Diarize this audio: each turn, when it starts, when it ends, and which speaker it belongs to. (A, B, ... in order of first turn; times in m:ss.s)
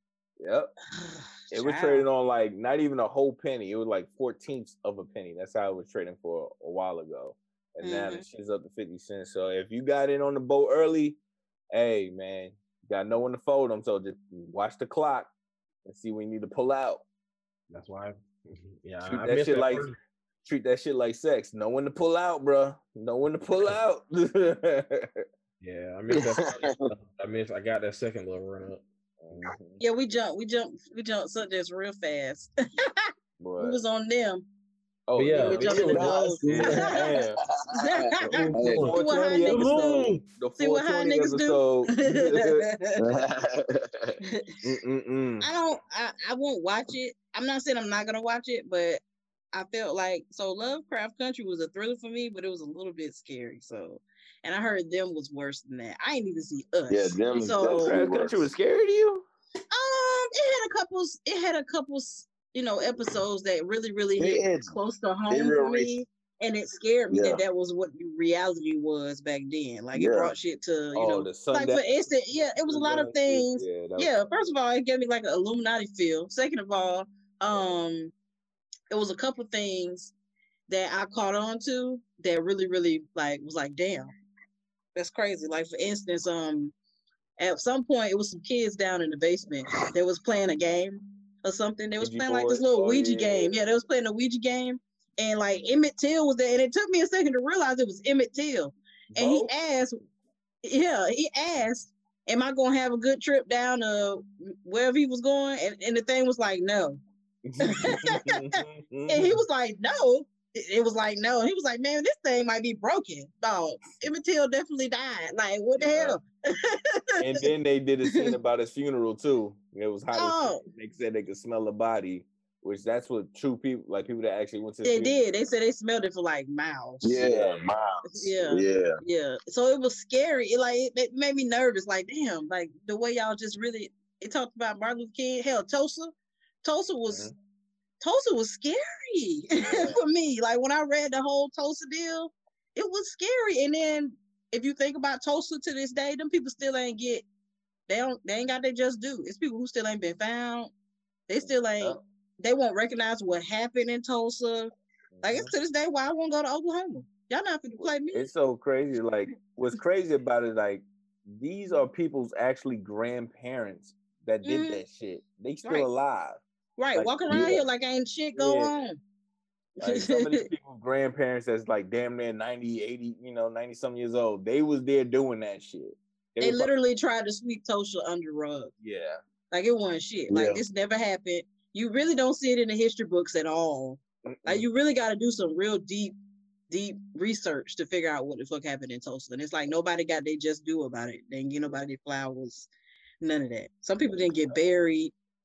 0:00.4-0:00.7 A
0:01.0-0:02.0 B
0:01.5-0:11.2 A
0:07.8-0:08.2 B
0:11.7-0:15.3 A
0:15.9-0:17.0 A
0:17.7-0:20.0 C
0:19.0-0:19.9 A
0:20.4-0:25.2 A
0:25.6-0:28.8 C
0:26.4-0:26.8 D
0:29.2-0:29.8 A
0:29.8-0:34.5 B
0:33.4-0:33.8 A
0:35.1-0:37.4 A
0:35.2-0:36.6 C
0:35.4-0:37.2 B
0:35.6-0:37.0 D
0:37.6-0:38.9 D
0:37.7-0:43.0 B
0:38.3-0:40.2 C
0:38.5-0:42.6 A
0:43.0-0:44.2 D
0:44.6-0:45.5 A
0:45.4-0:49.0 B
0:49.5-0:58.0 B
0:56.9-0:58.5 D
0:57.6-0:59.3 A
0:59.7-1:18.1 B
1:04.2-1:04.8 D
1:05.3-1:06.0 D
1:07.1-1:07.4 D
1:09.9-1:10.3 D
1:10.9-1:14.1 A
1:18.9-1:20.1 B
1:20.7-1:24.1 B
1:25.0-1:26.7 B
1:27.4-1:40.0 B
1:32.0-1:33.6 A
1:39.1-1:39.5 A
1:40.6-1:47.0 B
1:47.4-1:49.4 A
1:47.6-1:48.4 B
1:49.1-1:57.2 B
1:55.8-1:56.2 A
1:57.2-2:05.2 A
1:58.1-1:58.4 B
2:00.1-2:00.6 B
2:04.8-2:07.1 B
2:07.0-2:09.0 D
2:07.1-2:07.7 A
2:08.1-2:16.1 B
2:16.6-2:17.3 B
2:18.0-2:27.2 B
2:27.9-2:30.7 B
2:31.3-2:34.7 B
2:31.4-2:32.0 A
2:35.1-2:35.5 A
2:35.2-2:38.3 B
2:38.1-2:46.4 A
2:44.4-2:44.8 B
2:46.8-2:49.0 B
2:47.0-2:47.6 A
2:47.3-2:47.6 D
2:48.4-2:48.7 A
2:49.8-2:50.5 B
2:49.8-2:56.7 A
2:56.4-2:58.7 B
2:58.8-2:59.2 A
2:59.5-3:06.2 B
3:00.3-3:00.6 D
3:04.2-3:04.6 A
3:06.7-3:12.7 B
3:13.2-3:15.1 B